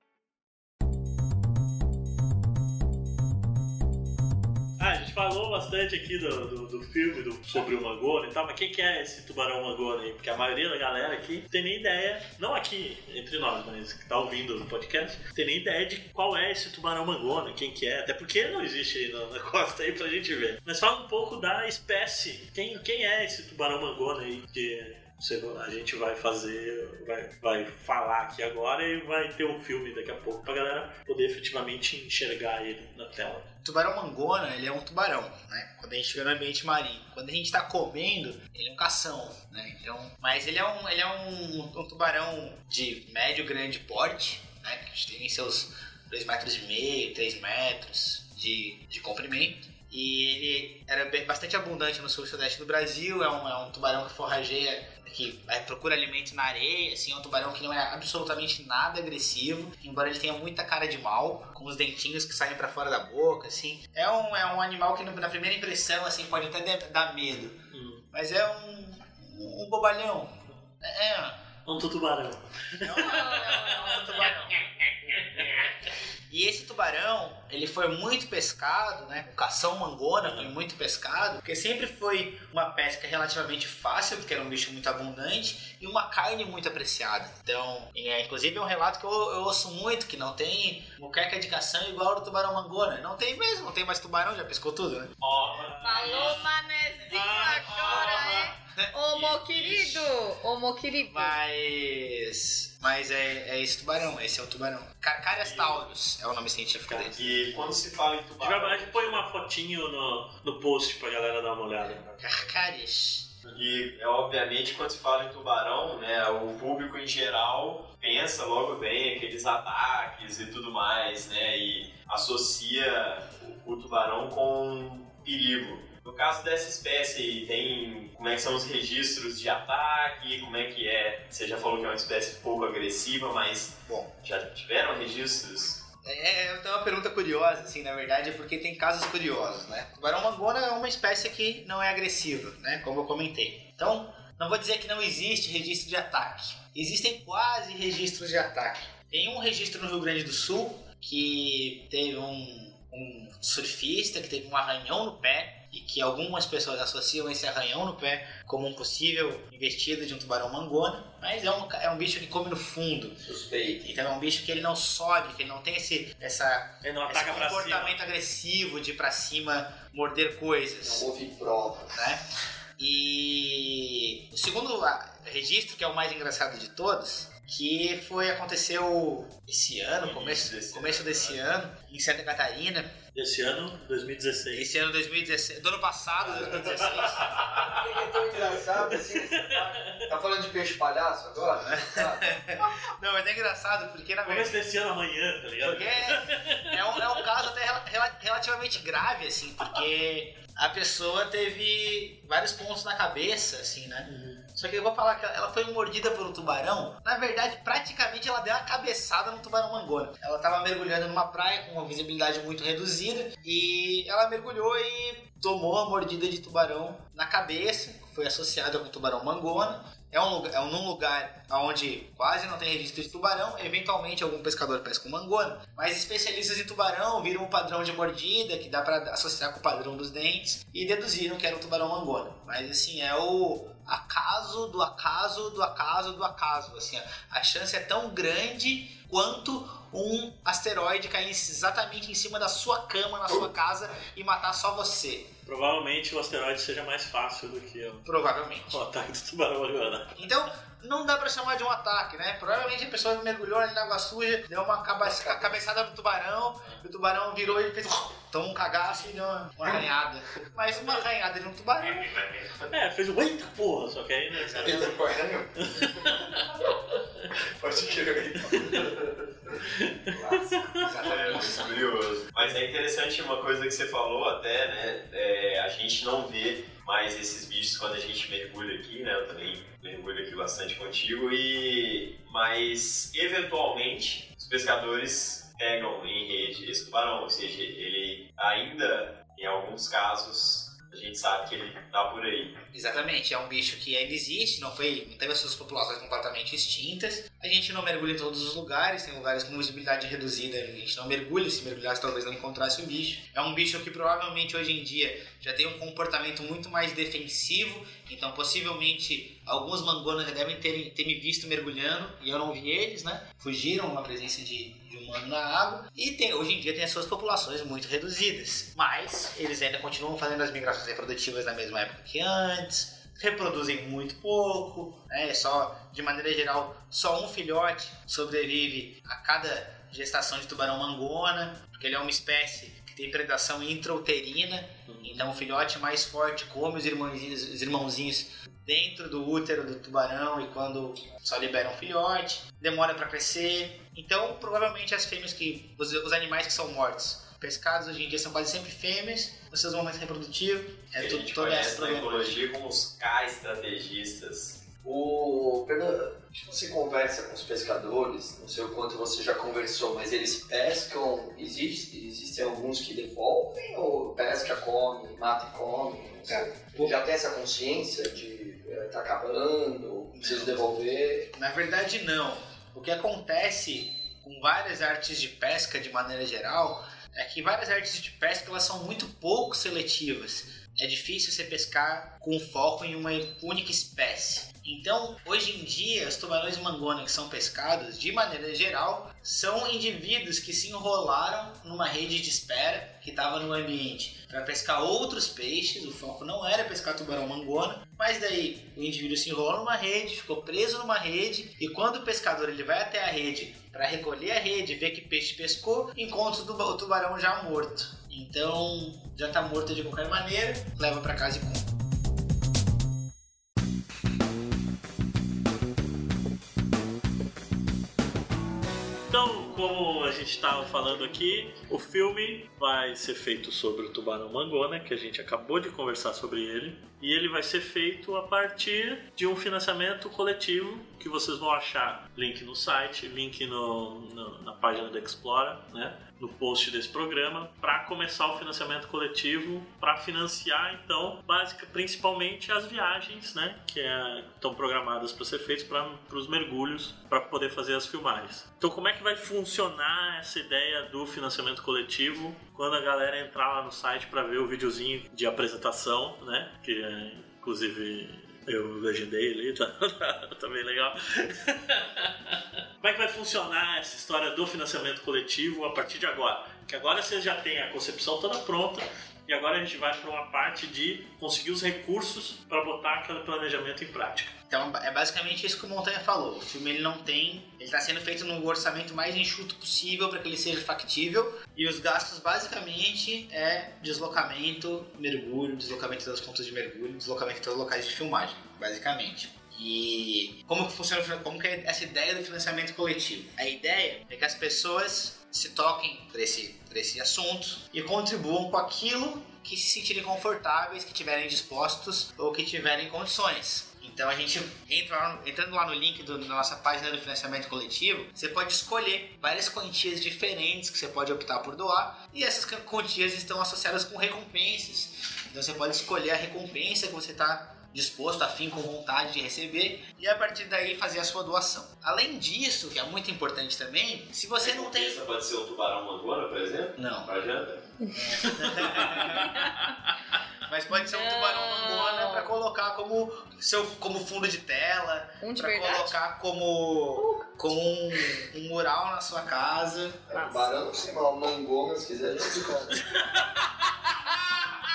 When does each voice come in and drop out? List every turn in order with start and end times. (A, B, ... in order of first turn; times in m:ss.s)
0:04.8-0:33.5 A
0:33.6-1:11.5 B
1:07.7-1:08.0 A
1:11.6-1:15.7 A
1:12.8-1:35.2 B
1:13.0-1:13.8 C
1:20.2-1:20.5 A
1:35.2-1:36.4 D
1:35.5-1:36.5 A
1:35.8-1:41.4 C
1:37.1-1:38.4 A
1:37.1-1:38.4 D
1:38.3-1:38.9 B
1:39.1-1:40.1 D
1:41.1-1:47.4 B
1:45.4-1:45.7 A
1:46.9-1:47.4 A
1:47.1-1:49.2 D
1:48.4-1:52.4 A
1:52.2-1:53.3 B
1:53.5-2:15.8 D
2:13.9-2:14.1 B
2:16.0-2:43.2 B
2:43.2-2:43.8 E
2:43.8-2:51.1 B
2:46.8-2:48.0 A
2:50.8-2:52.1 E
2:51.9-2:52.2 B
2:52.8-3:02.9 B
3:00.0-3:01.4 D
3:03.1-3:04.7 A
3:04.5-3:07.6 B
3:06.4-3:06.7 E
3:06.6-3:07.6 A
3:07.5-3:12.3 E
3:08.9-3:10.0 A
3:11.6-3:14.6 B
3:14.2-3:17.1 A
3:15.6-4:05.3 B
3:24.1-3:24.4 A
4:05.5-4:08.1 A
4:08.0-4:08.8 B
4:08.7-4:10.2 A
4:10.2-4:22.6 B
4:22.7-4:26.7 A
4:24.4-4:24.8 B
4:24.6-4:26.7 E
4:27.4-4:29.6 E
4:28.5-4:28.9 A
4:29.6-4:30.9 A
4:30.1-4:30.7 E
4:30.8-4:31.6 B
4:30.9-4:52.6 D
4:52.7-5:52.4 B
5:34.9-5:35.1 A
5:51.0-5:54.7 D
5:54.8-6:11.3 E
6:06.3-6:07.0 B
6:10.1-6:10.6 B
6:11.3-6:51.7 B
6:59.1-7:54.4 A
7:54.5-8:45.0 B
8:44.4-8:47.6 D
8:46.8-8:47.1 B
8:48.0-8:49.3 B
8:48.5-8:49.2 D
8:48.9-8:49.5 A
8:49.2-8:49.6 C
8:50.4-9:00.1 B
8:50.7-8:52.3 C
8:55.2-8:56.0 C
8:57.0-8:57.3 C
9:00.1-9:02.8 E
9:02.8-9:03.7 A